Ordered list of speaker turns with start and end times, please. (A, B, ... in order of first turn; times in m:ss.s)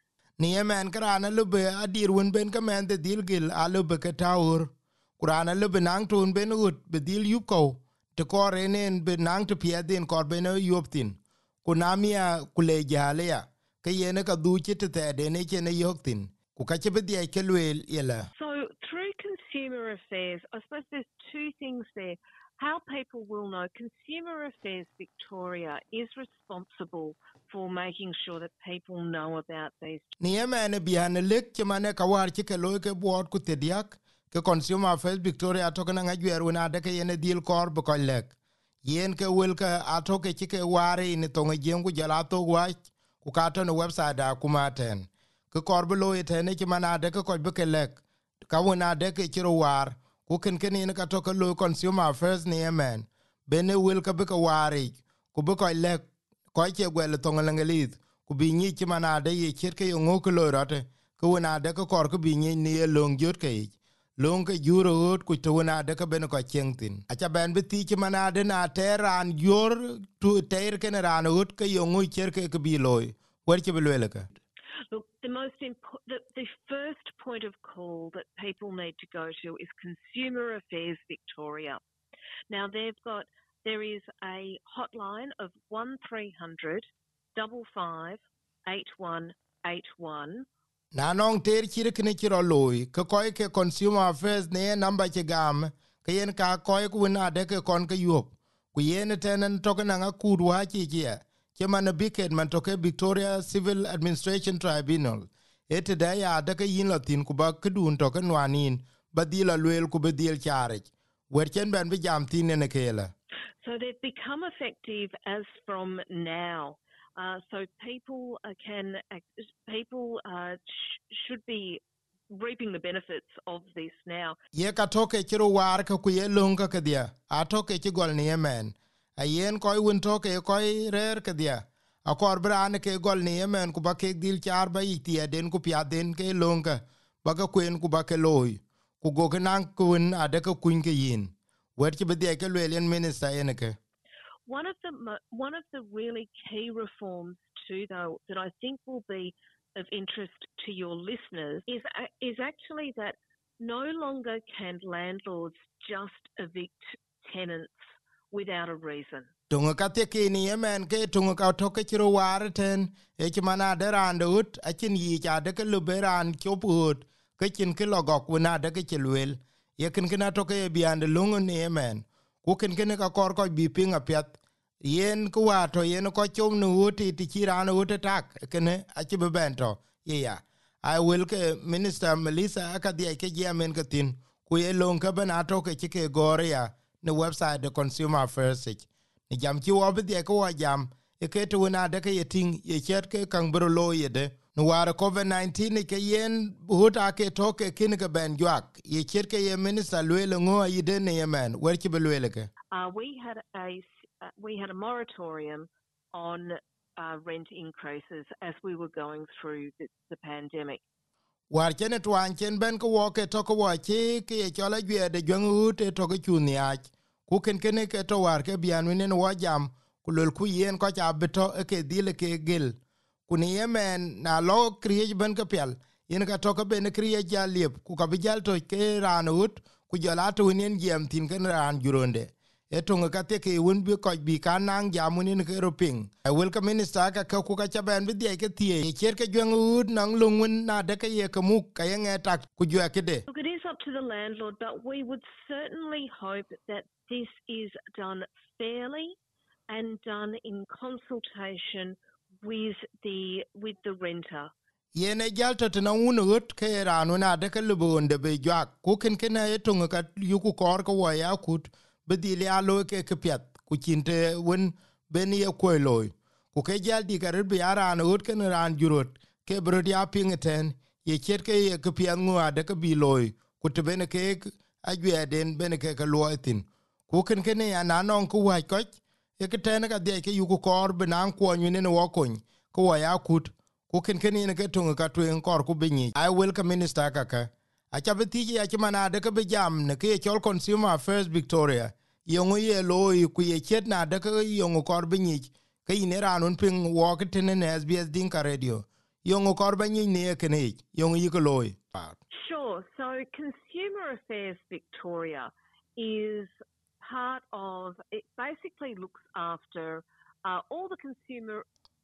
0:00.4-0:18.3 A
0:18.4-0:30.1 B
0:30.2-0:56.0 A
0:56.5-1:14.3 A
1:14.9-1:21.8 B
1:22.5-1:30.5 B
1:30.9-1:53.1 A
1:53.6-2:04.4 B
2:04.5-2:23.8 A
2:24.5-2:39.3 B
2:39.5-3:22.5 A
3:22.7-3:30.8 B
3:31.5-3:42.8 A
3:43.3-4:03.2 A
4:03.3-4:09.2 B
4:09.7-4:14.5 B
4:15.0-5:02.2 A
5:02.3-5:11.7 B